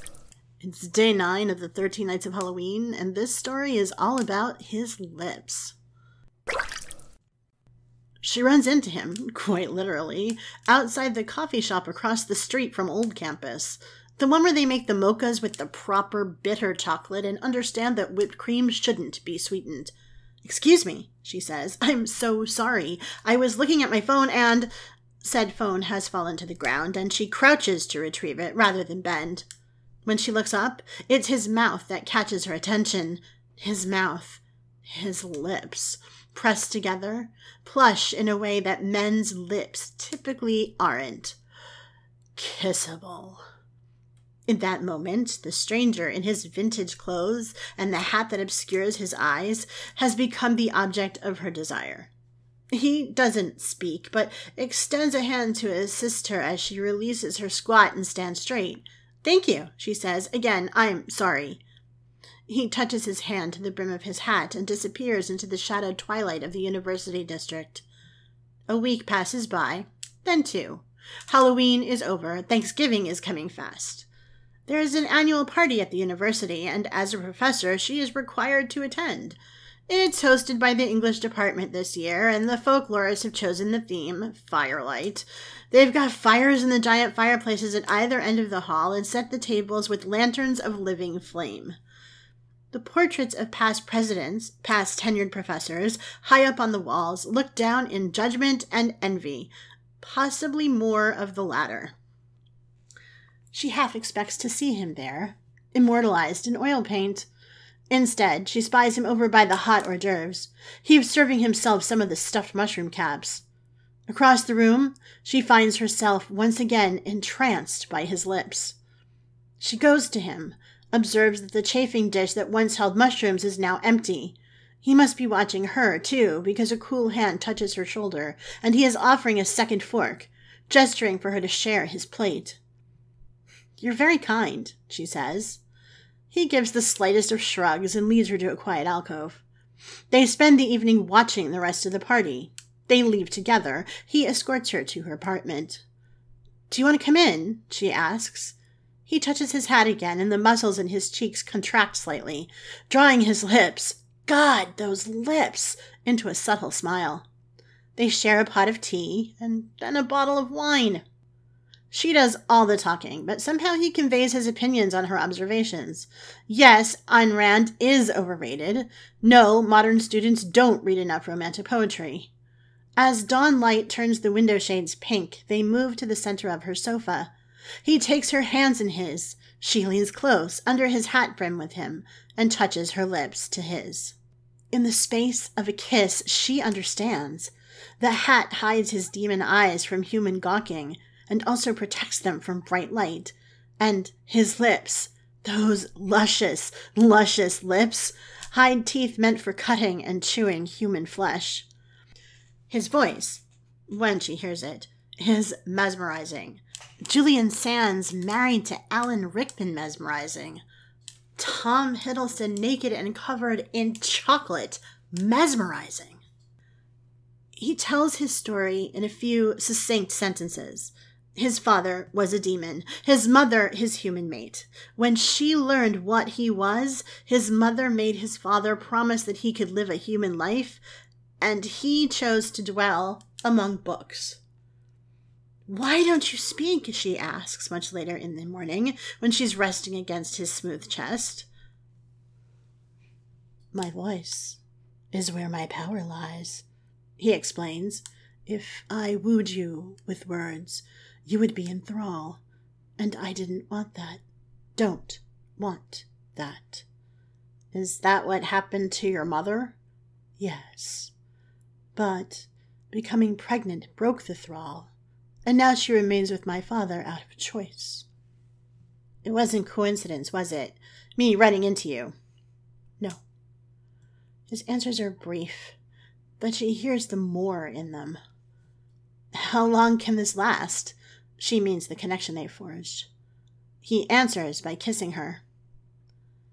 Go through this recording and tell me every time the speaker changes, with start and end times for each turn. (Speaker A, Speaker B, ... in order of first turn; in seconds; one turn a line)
Speaker A: 0.6-5.8
Speaker A: 8.2-19.9
Speaker A: 20.4-24.7
Speaker A: 25.2-29.5
Speaker A: 30.1-41.4
Speaker A: 42.4-43.4
Speaker A: 44.5-52.1
Speaker A: 52.7-61.6
Speaker A: 62.5-67.9
Speaker A: 68.7-74.1
Speaker A: 74.7-79.4
Speaker A: 79.9-91.8
Speaker A: 92.7-102.0
Speaker A: 103.5-107.3
Speaker A: 107.9-113.4
Speaker A: 114.1-118.8
Speaker A: 119.6-132.6
Speaker A: 133.8-135.6
Speaker A: 136.3-139.4
Speaker A: 140.1-145.8
Speaker A: 146.7-148.6
Speaker A: 149.1-157.3
Speaker A: 158.0-161.0
Speaker A: 161.9-172.3
Speaker A: 173.0-177.3
Speaker A: 177.8-184.2
Speaker A: 184.7-201.7
Speaker A: 202.7-210.6
Speaker A: 211.4-216.2
Speaker A: 217.6-230.8
Speaker A: 231.4-234.4
Speaker A: 235.7-241.5
Speaker A: 243.7-244.6
Speaker A: 245.1-246.7
Speaker A: 247.2-252.4
Speaker A: 253.0-254.2
Speaker A: 254.8-256.9
Speaker A: 257.7-259.8
Speaker A: 260.4-261.1
Speaker A: 261.9-264.9
Speaker A: 265.5-268.1
Speaker A: 269.2-272.1
Speaker A: 274.5-275.8
Speaker A: 276.4-278.2
Speaker A: 279.3-283.1
Speaker A: 283.8-285.4